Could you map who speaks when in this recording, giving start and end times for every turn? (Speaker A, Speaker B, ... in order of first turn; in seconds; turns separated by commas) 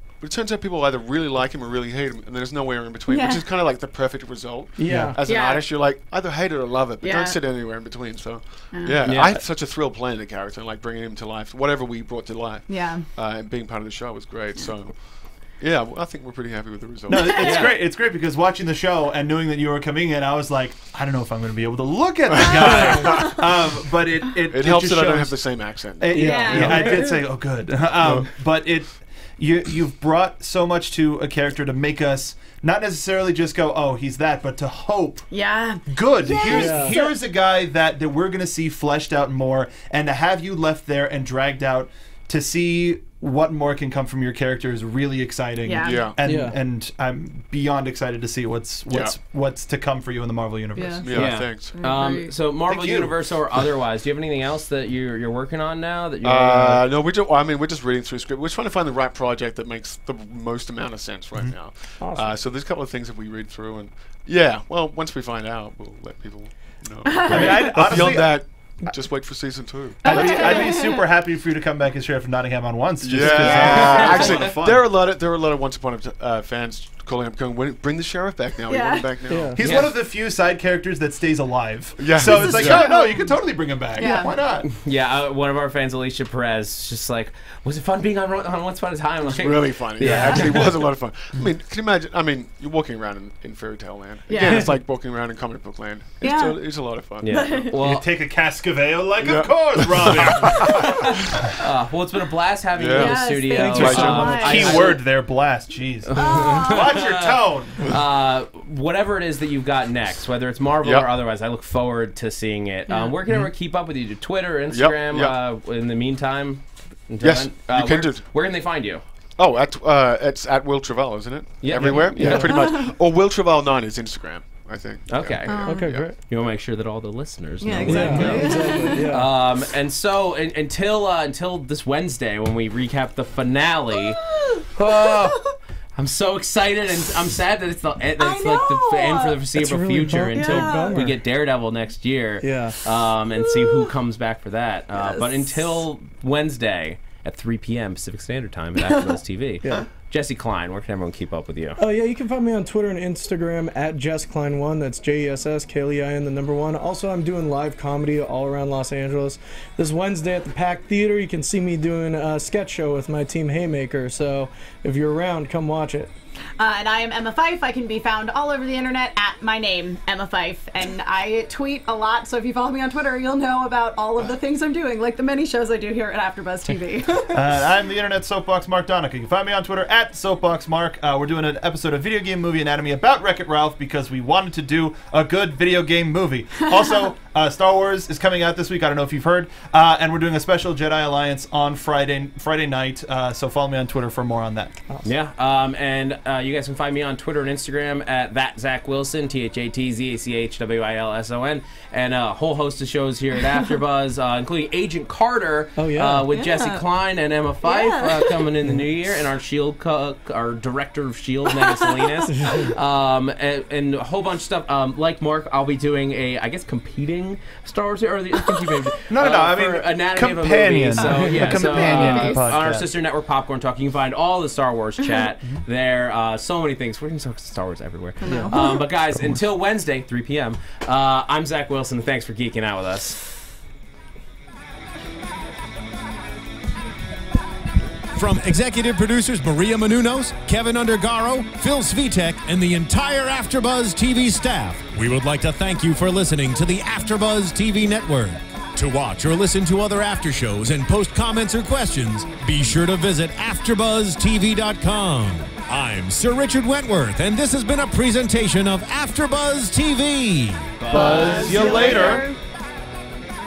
Speaker A: 0.2-17.8, Speaker B: 3.1-3.4, Speaker C: 4.8-5.2, Speaker D: 4.9-5.2, Speaker B: 5.2-5.7, Speaker B: 7.0-7.4, Speaker B: 8.7-9.0, Speaker E: 9.0-9.4, Speaker B: 12.7-13.1, Speaker D: 17.1-35.3, Speaker B: 17.1-17.8, Speaker E: 17.4-17.7, Speaker A: 22.3-23.3, Speaker B: 23.1-23.4, Speaker A: 24.5-26.9, Speaker B: 26.1-27.3, Speaker C: 26.1-26.9, Speaker A: 28.0-28.3, Speaker B: 35.3-37.1, Speaker D: 35.9-51.3, Speaker C: 36.5-37.0, Speaker B: 45.6-46.1, Speaker A: 45.8-46.2, Speaker C: 46.2-46.6, Speaker A: 48.9-49.1, Speaker B: 50.8-51.1, Speaker A: 51.0-52.0, Speaker E: 51.1-56.8, Speaker B: 51.7-52.3, Speaker D: 52.7-53.4, Speaker A: 56.2-70.7, Speaker C: 62.0-62.3, Speaker B: 67.1-68.0, Speaker D: 67.2-68.5, Speaker B: 70.0-71.1, Speaker D: 70.0-74.8, Speaker A: 73.0-79.8, Speaker B: 73.2-74.5, Speaker E: 73.8-74.5, Speaker B: 78.7-79.1, Speaker C: 79.3-79.6, Speaker D: 79.6-84.7, Speaker E: 79.6-80.0, Speaker A: 82.0-83.0, Speaker B: 82.2-83.4, Speaker B: 83.9-84.3, Speaker E: 84.7-90.8, Speaker A: 89.2-97.7, Speaker B: 90.1-90.5, Speaker B: 94.3-94.7, Speaker B: 96.2-96.6, Speaker E: 97.2-98.1, Speaker B: 97.3-97.7, Speaker D: 97.8-101.1, Speaker A: 99.2-101.5, Speaker E: 101.5-105.0, Speaker A: 102.7-105.0, Speaker B: 102.8-104.9, Speaker C: 103.6-104.3, Speaker D: 103.7-107.9, Speaker E: 106.1-119.0, Speaker B: 106.2-107.0, Speaker A: 110.8-111.1, Speaker B: 112.9-113.2, Speaker A: 114.7-115.4, Speaker A: 117.2-118.5, Speaker A: 119.4-126.1, Speaker E: 121.6-122.6, Speaker D: 121.8-122.3, Speaker C: 121.8-122.5, Speaker B: 122.5-122.9, Speaker E: 125.1-151.8, Speaker B: 125.5-125.9, Speaker C: 125.6-126.2, Speaker B: 127.6-129.1, Speaker A: 127.8-128.4, Speaker C: 127.8-129.3, Speaker B: 133.9-135.4, Speaker B: 138.2-139.4, Speaker C: 139.6-141.2, Speaker B: 140.3-141.0, Speaker C: 142.4-142.8, Speaker B: 143.4-143.9, Speaker B: 145.0-145.8, Speaker B: 148.8-149.1, Speaker C: 151.8-166.1, Speaker B: 166.6-177.5, Speaker D: 177.3-194.7, Speaker E: 195.0-233.2, Speaker C: 205.8-206.3, Speaker B: 206.3-206.8, Speaker B: 207.6-208.4, Speaker B: 211.7-212.1, Speaker C: 212.3-212.7, Speaker D: 219.1-222.9, Speaker C: 221.0-221.8, Speaker B: 221.6-222.6, Speaker B: 228.2-228.8, Speaker C: 228.3-228.5, Speaker D: 229.1-229.4, Speaker F: 238.2-260.8, Speaker E: 260.8-262.2, Speaker D: 260.9-262.3, Speaker B: 260.9-262.4